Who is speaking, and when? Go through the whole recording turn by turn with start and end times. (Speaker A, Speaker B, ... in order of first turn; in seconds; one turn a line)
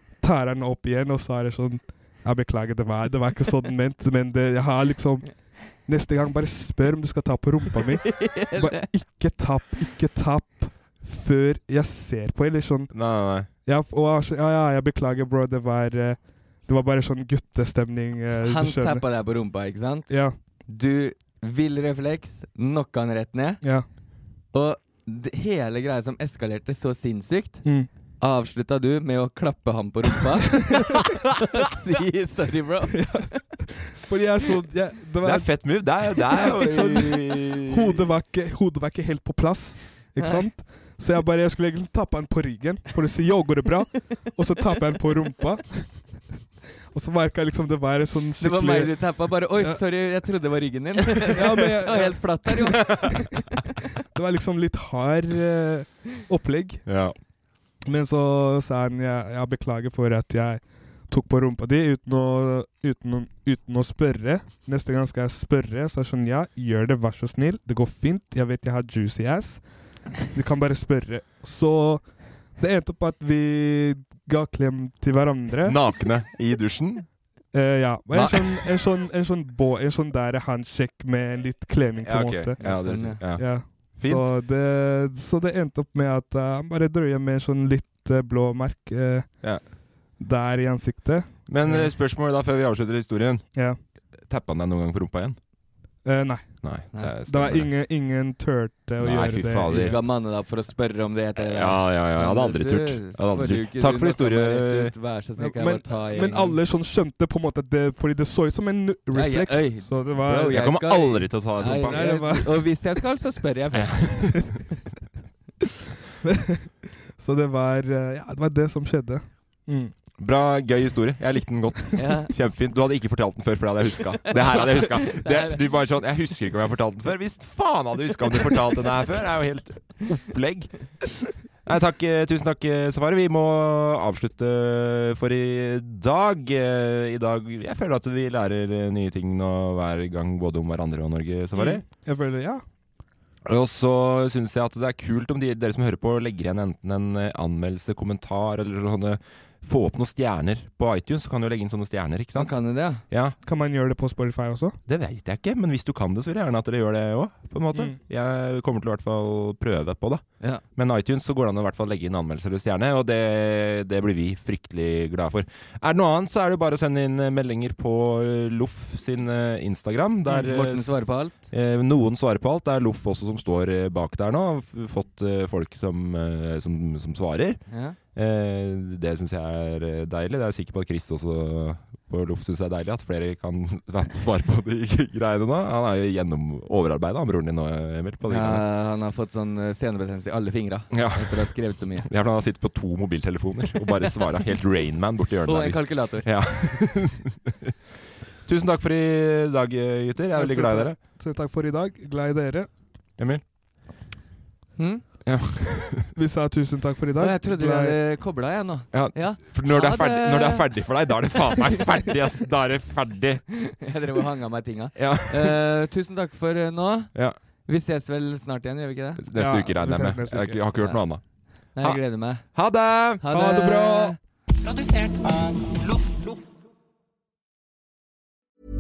Speaker A: 0.2-12.9
Speaker B: 8.1-8.9
Speaker C: 12.9-13.5
Speaker A: 13.7-19.1
Speaker B: 18.4-20.1
Speaker A: 20.1-20.4
Speaker B: 20.7-23.6
Speaker B: 24.5-27.7
Speaker A: 27.6-27.9
Speaker B: 28.2-33.4
Speaker A: 32.9-46.2
Speaker C: 35.2-38.1
Speaker A: 46.9-49.0
Speaker B: 48.4-53.2
Speaker A: 49.5-49.8
Speaker A: 51.3-53.4
Speaker C: 52.7-53.1
Speaker A: 54.1-56.9
Speaker C: 56.9-57.1
Speaker A: 57.9-69.6
Speaker A: 70.2-72.0
Speaker A: 72.6-75.8
Speaker C: 75.7-77.1
Speaker A: 77.5-89.4
Speaker C: 78.1-78.7
Speaker C: 82.0-84.3
Speaker B: 82.6-83.2
Speaker A: 90.2-91.9
Speaker C: 91.5-93.5
Speaker C: 94.2-95.4
Speaker A: 96.0-96.7
Speaker C: 96.6-97.7
Speaker A: 97.3-100.0
Speaker C: 99.0-100.0
Speaker B: 99.7-106.6
Speaker C: 101.4-104.9
Speaker A: 105.4-110.6
Speaker B: 109.1-114.3
Speaker C: 110.4-112.4
Speaker A: 111.9-112.6
Speaker C: 113.7-114.6
Speaker A: 116.2-119.9
Speaker C: 120.2-130.9
Speaker B: 122.0-122.3
Speaker B: 124.3-125.6
Speaker C: 131.6-141.8
Speaker A: 141.6-142.6
Speaker C: 143.5-152.6
Speaker B: 152.4-153.0
Speaker C: 153.1-153.4
Speaker A: 153.4-154.8
Speaker C: 154.9-160.2
Speaker C: 160.8-177.6
Speaker B: 170.3-171.5
Speaker B: 177.7-178.0
Speaker C: 178.1-188.6
Speaker B: 188.3-192.1
Speaker C: 190.9-197.7
Speaker B: 193.9-194.2
Speaker B: 195.4-196.3
Speaker C: 198.4-201.0
Speaker A: 200.3-202.7
Speaker B: 204.8-205.0
Speaker C: 205.2-206.1
Speaker A: 206.1-208.0
Speaker B: 207.2-210.8
Speaker C: 208.9-213.4
Speaker B: 213.5-217.1
Speaker C: 215.0-215.6
Speaker B: 217.7-219.2
Speaker C: 219.2-221.2
Speaker A: 219.4-220.6
Speaker B: 221.8-222.5
Speaker C: 221.8-223.2
Speaker B: 223.2-224.2
Speaker A: 223.3-224.2